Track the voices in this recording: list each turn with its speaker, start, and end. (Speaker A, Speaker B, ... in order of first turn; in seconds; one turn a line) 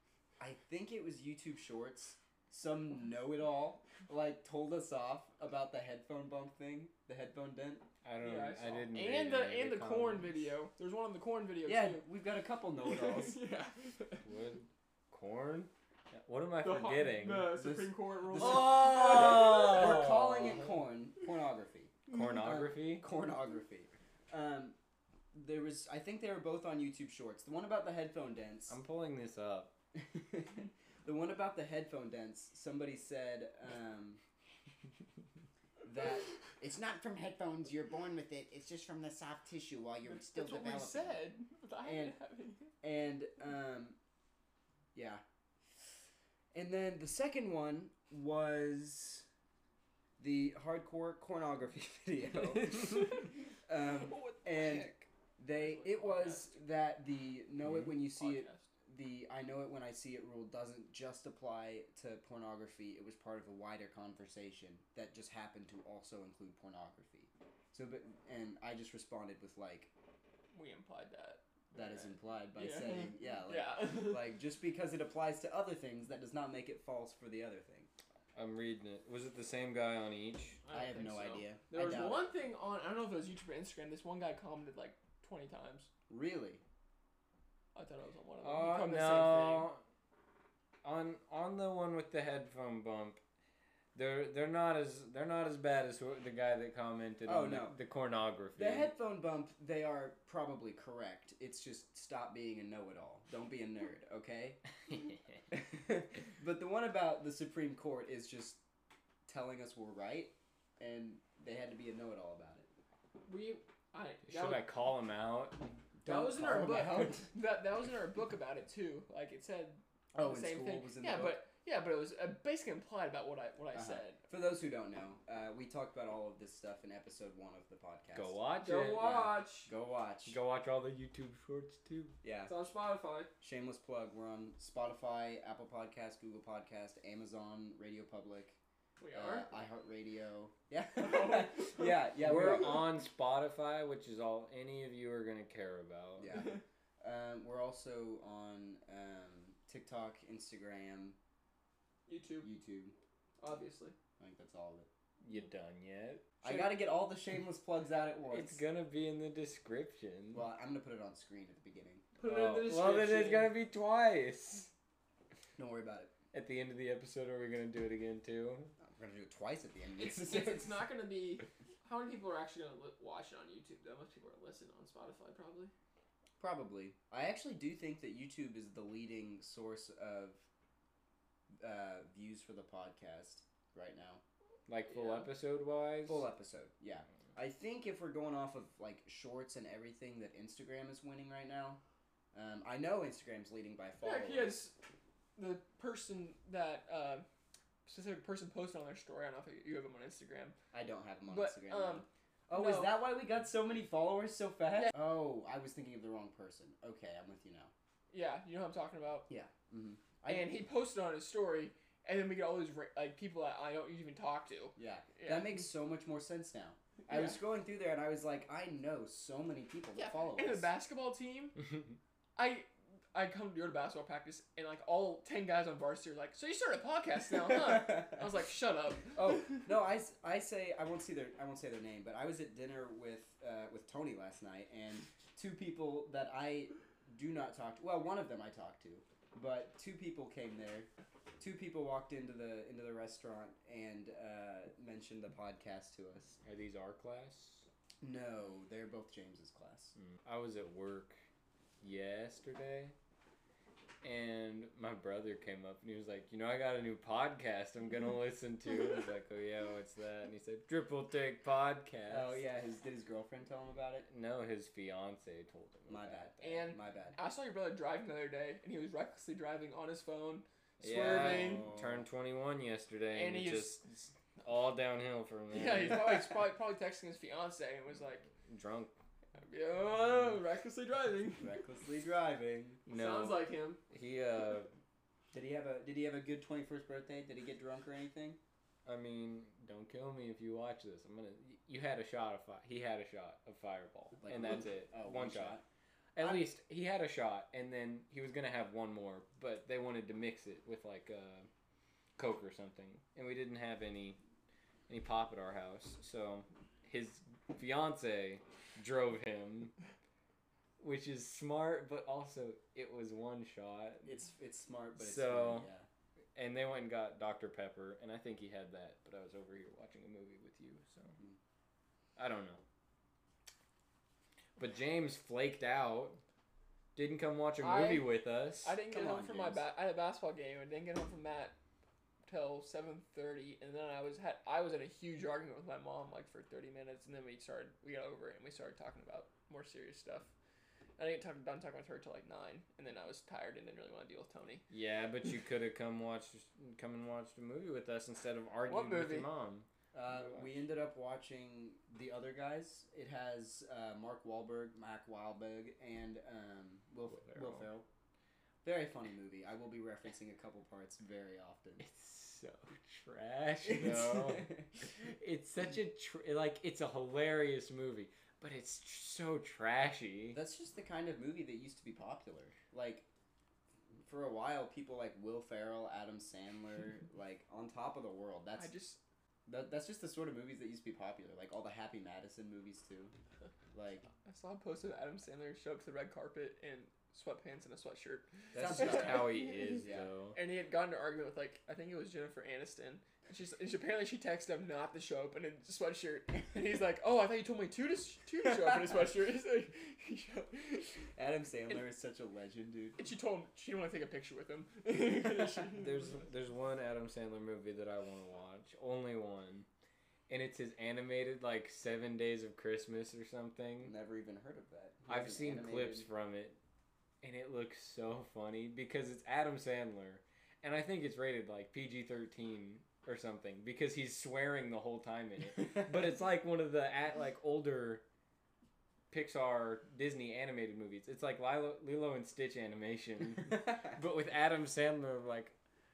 Speaker A: 0.4-7.9
Speaker B: 8.0-10.3
Speaker C: 8.2-12.1
Speaker A: 11.6-13.4
Speaker C: 12.8-14.2
Speaker B: 14.2-17.5
Speaker C: 16.6-19.8
Speaker A: 17.4-24.8
Speaker B: 18.3-20.6
Speaker B: 22.1-23.1
Speaker A: 25.3-28.8
Speaker B: 28.7-29.7
Speaker A: 29.9-34.2
Speaker A: 35.8-41.3
Speaker C: 40.3-42.7
Speaker A: 41.8-42.1
Speaker A: 42.8-44.0
Speaker A: 44.9-45.2
Speaker A: 46.5-49.2
Speaker A: 50.2-69.9
Speaker C: 52.7-53.2
Speaker C: 53.9-54.9
Speaker C: 55.5-56.6
Speaker C: 58.0-58.6
Speaker C: 70.5-74.3
Speaker A: 71.7-77.9
Speaker B: 78.3-80.6
Speaker C: 80.6-85.9
Speaker A: 80.7-82.3
Speaker A: 86.1-86.6
Speaker C: 87.7-89.7
Speaker B: 88.4-89.8
Speaker B: 90.8-93.2
Speaker B: 93.9-98.9
Speaker A: 97.2-97.8
Speaker A: 98.5-104.6
Speaker A: 105.5-108.6
Speaker A: 109.3-112.7
Speaker C: 113.2-114.7
Speaker B: 114.2-115.8
Speaker A: 116.0-117.3
Speaker C: 116.0-124.2
Speaker A: 120.1-121.4
Speaker A: 123.7-128.4
Speaker B: 128.1-129.4
Speaker C: 128.6-129.7
Speaker A: 129.7-130.4
Speaker B: 130.2-132.1
Speaker A: 132.2-132.5
Speaker C: 132.4-133.3
Speaker A: 133.4-138.6
Speaker C: 139.0-139.6
Speaker A: 139.1-142.9
Speaker C: 141.0-142.0
Speaker B: 142.2-146.3
Speaker A: 146.2-151.2
Speaker C: 152.1-152.5
Speaker A: 152.4-152.9
Speaker C: 153.4-153.9
Speaker A: 154.2-154.9
Speaker B: 155.2-156.3
Speaker A: 156.4-158.6
Speaker B: 158.3-160.4
Speaker A: 160.3-162.1
Speaker C: 162.2-163.5
Speaker B: 162.2-164.7
Speaker A: 165.6-166.1
Speaker B: 166.3-168.7
Speaker A: 168.8-170.8
Speaker C: 170.0-175.7
Speaker A: 176.4-180.4
Speaker A: 181.6-184.2
Speaker B: 184.7-186.3
Speaker C: 184.9-185.3
Speaker A: 186.1-191.8
Speaker A: 192.3-194.6
Speaker C: 194.0-194.7
Speaker C: 195.3-197.2
Speaker C: 197.8-200.6
Speaker A: 200.7-207.7
Speaker C: 201.3-203.0
Speaker C: 208.1-209.3
Speaker A: 209.3-210.5
Speaker C: 210.2-215.6
Speaker A: 214.8-220.7
Speaker C: 217.1-217.4
Speaker C: 219.9-221.6
Speaker C: 222.3-229.2
Speaker A: 227.5-228.2
Speaker A: 229.1-246.4
Speaker B: 246.4-247.7
Speaker A: 248.0-249.9
Speaker B: 250.0-251.2
Speaker B: 251.8-252.9
Speaker B: 254.0-262.4
Speaker A: 262.1-264.1
Speaker B: 264.1-266.3
Speaker A: 265.9-267.2
Speaker C: 266.4-271.7
Speaker B: 270.8-276.3
Speaker A: 271.0-272.0
Speaker C: 273.1-273.8
Speaker C: 275.5-278.2
Speaker B: 278.4-278.9
Speaker C: 279.4-281.5
Speaker A: 281.4-282.8
Speaker B: 282.9-284.7
Speaker C: 282.9-283.8
Speaker A: 285.3-288.4
Speaker B: 288.9-295.6
Speaker A: 294.2-295.6
Speaker B: 296.1-301.5
Speaker A: 296.2-296.5
Speaker B: 302.2-304.2
Speaker B: 304.9-309.7
Speaker B: 310.8-314.1
Speaker A: 314.0-315.9
Speaker B: 314.9-315.7
Speaker B: 316.4-321.1
Speaker B: 322.2-322.6
Speaker B: 324.6-326.2
Speaker B: 326.9-328.7
Speaker C: 327.6-331.5
Speaker A: 328.9-329.6
Speaker C: 332.2-340.3
Speaker C: 341.0-344.6
Speaker B: 344.7-350.5
Speaker C: 348.7-349.3
Speaker A: 349.9-357.9
Speaker B: 357.1-357.7
Speaker A: 358.6-361.8
Speaker B: 361.8-370.4
Speaker A: 363.6-364.6
Speaker A: 370.3-373.1
Speaker A: 374.1-378.7
Speaker C: 378.6-379.0
Speaker A: 379.4-383.1
Speaker A: 383.7-384.1
Speaker C: 384.2-389.8
Speaker A: 388.5-390.1
Speaker B: 388.5-390.4
Speaker C: 390.3-400.9
Speaker A: 401.1-403.0
Speaker C: 403.0-405.9
Speaker B: 405.7-409.7
Speaker B: 410.3-413.9
Speaker A: 413.8-416.1
Speaker B: 415.1-416.6
Speaker B: 417.2-428.0
Speaker B: 429.1-435.5